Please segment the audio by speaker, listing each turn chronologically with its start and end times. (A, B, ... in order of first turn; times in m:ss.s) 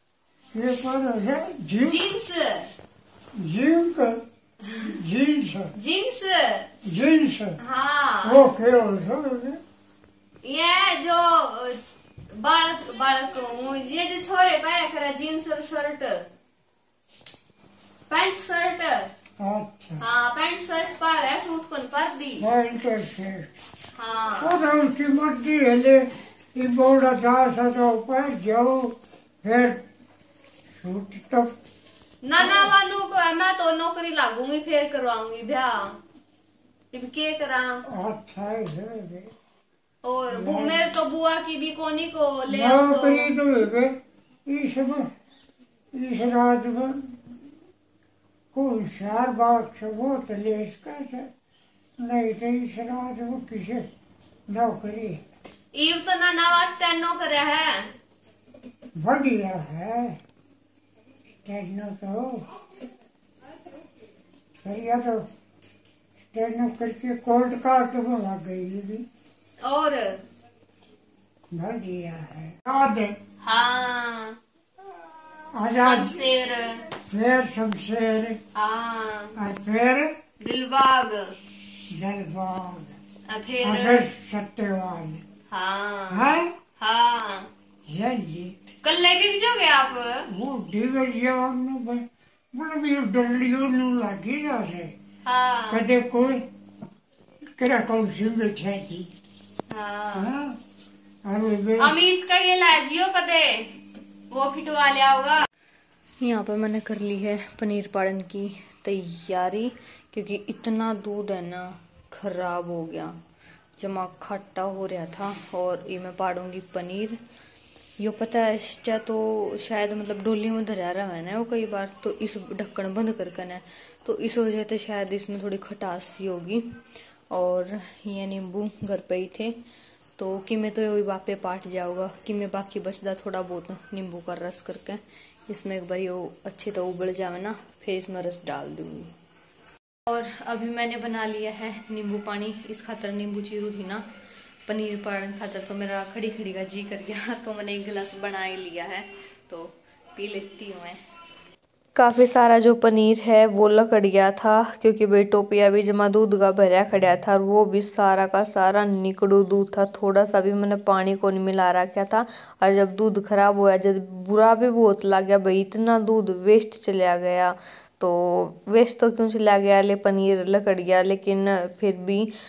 0:00.5-0:02.1 A
0:01.8-0:02.7 B
0:03.4-0:04.2 A
0:04.8-0:05.7 A
0:05.8-0:06.7 B
0:06.8-0:07.6 A
0:07.6-0:08.5 B
0:08.2-0:09.6 A
0:10.4-0:11.8 B
0:12.3-0:16.2 B
0:18.1-0:19.1 B
0:19.4-0:20.0 A
0:20.0-0:22.4 B
0:22.4-0:23.5 A
0:24.0-0:24.6 B
0:24.4-0:29.8 A
0:30.7-0:31.5 A
0:32.2-0:36.0 B
0:32.4-0:32.7 A
0:36.9-0:37.8 B
0:37.8-0:39.3 A
0:40.0-0:43.3 B
0:40.3-0:40.8 A
0:42.5-0:45.1 A
0:45.9-0:47.2 A
0:48.5-0:51.3 A
0:52.0-0:53.9 A
0:54.5-0:55.2 A
0:55.7-0:57.9 B
0:59.0-1:00.2 A
1:01.4-1:02.4 A
1:04.6-1:05.2 A
1:06.3-1:09.0 A
1:09.6-1:10.2 B
1:11.5-1:13.2 A
1:13.4-1:14.4 B
1:15.0-1:16.2 A
1:15.8-1:16.8 B
1:17.1-1:18.4 A
1:18.6-1:19.3 B
1:19.4-1:20.1 A
1:20.4-1:21.3 B
1:21.9-1:23.0 A
1:23.3-1:24.0 B
1:23.6-1:25.2 A
1:25.5-1:27.5 B
1:26.1-1:26.5 A
1:27.9-1:28.5 A
1:28.8-1:30.3 B
1:30.2-1:34.9 A
1:35.2-1:35.8 B
1:35.7-1:36.4 A
1:37.6-1:39.1 A
1:39.7-1:40.3 B
1:40.1-1:40.6 A
1:41.2-1:42.0 A
1:41.8-1:43.7 B
1:44.3-1:45.4 B
1:46.2-1:53.2 C
1:53.8-1:57.2 C
1:58.0-2:06.7 C
2:07.3-2:09.6 C
2:10.2-2:19.1 C
2:20.0-2:24.0 C
2:24.6-2:31.0 C
2:31.9-2:52.3 C